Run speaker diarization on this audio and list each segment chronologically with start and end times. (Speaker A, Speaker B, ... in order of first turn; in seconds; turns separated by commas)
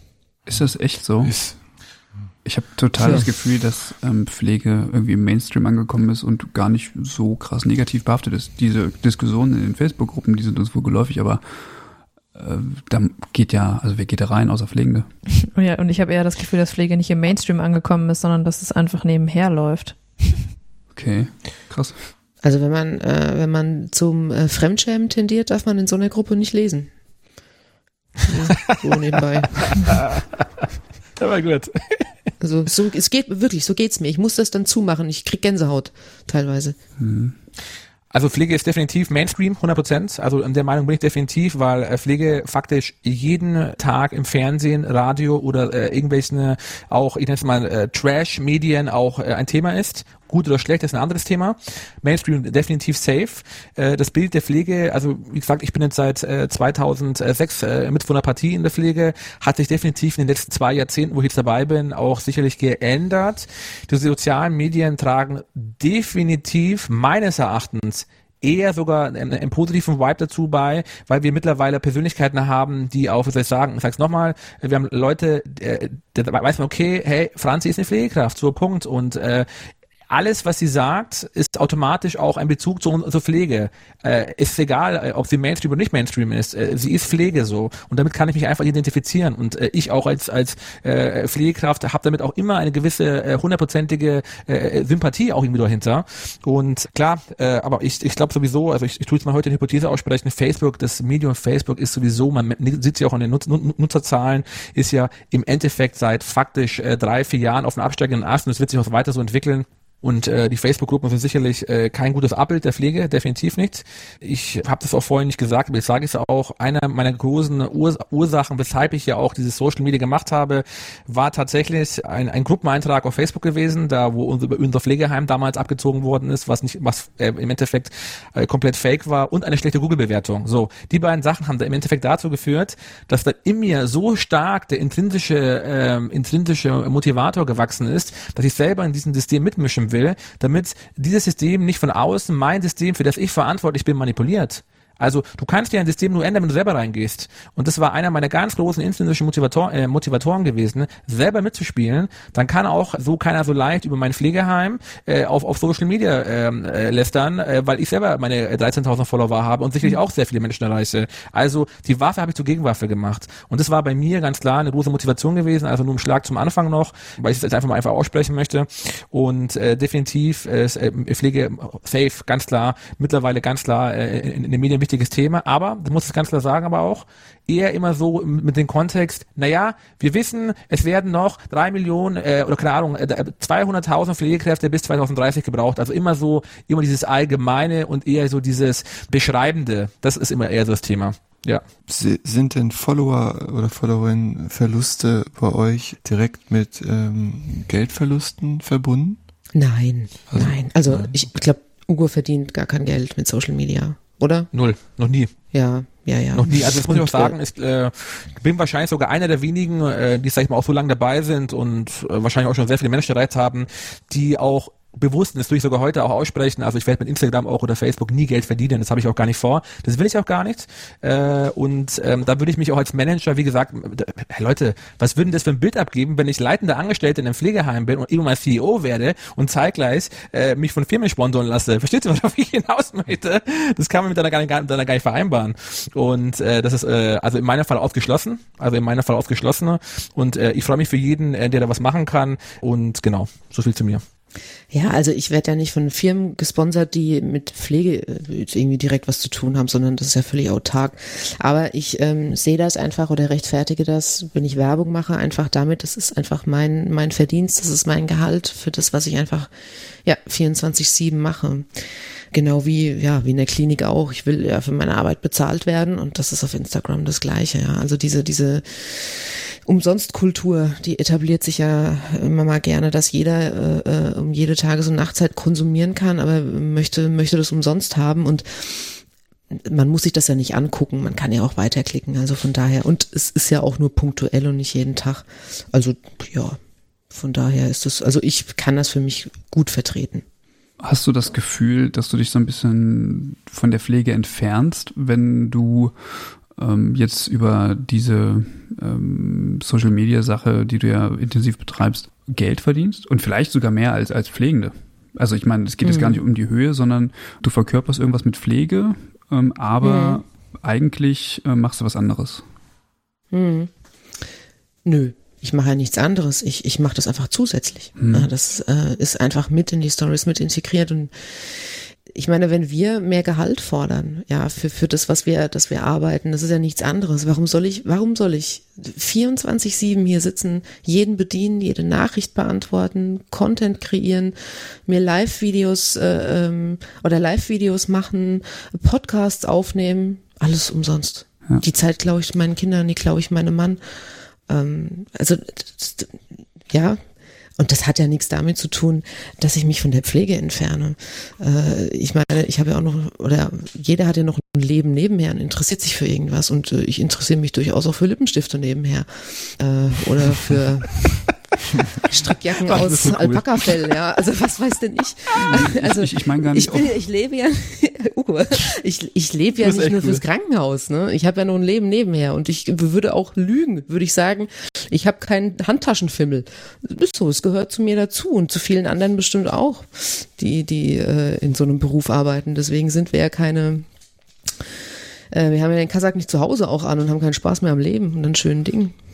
Speaker A: 0.5-1.3, Speaker B: 1.2-1.6, Speaker A: 2.4-11.4, Speaker A: 12.3-15.1, Speaker C: 15.4-20.4, Speaker A: 20.9-22.0, Speaker D: 22.4-26.9, Speaker D: 28.2-29.6, Speaker E: 29.5-30.6, Speaker E: 31.2-32.1, Speaker D: 32.4-36.8, Speaker A: 37.0-37.3, Speaker E: 38.1-79.5, Speaker E: 80.1-191.6, Speaker B: 191.9-199.2, Speaker D: 199.5-204.5, Speaker B: 200.3-201.1, Speaker E: 204.5-205.3, Speaker D: 205.5-207.3, Speaker E: 206.3-244.0, Speaker D: 244.7-259.5, Speaker D: 260.0-261.8, Speaker D: 262.3-286.6, Speaker D: 287.1-290.2, Speaker A: 290.8-295.9, Speaker A: 296.5-312.4, Speaker D: 305.8-306.2, Speaker D: 309.8-310.2, Speaker D: 313.3-313.7, Speaker D: 314.8-343.8, Speaker A: 318.0-318.3, Speaker D: 344.5-347.0, Speaker D: 347.6-361.0, Speaker D: 362.0-383.9, Speaker E: 362.6-363.8, Speaker A: 365.3-366.9, Speaker E: 369.6-370.2, Speaker D: 385.3-388.9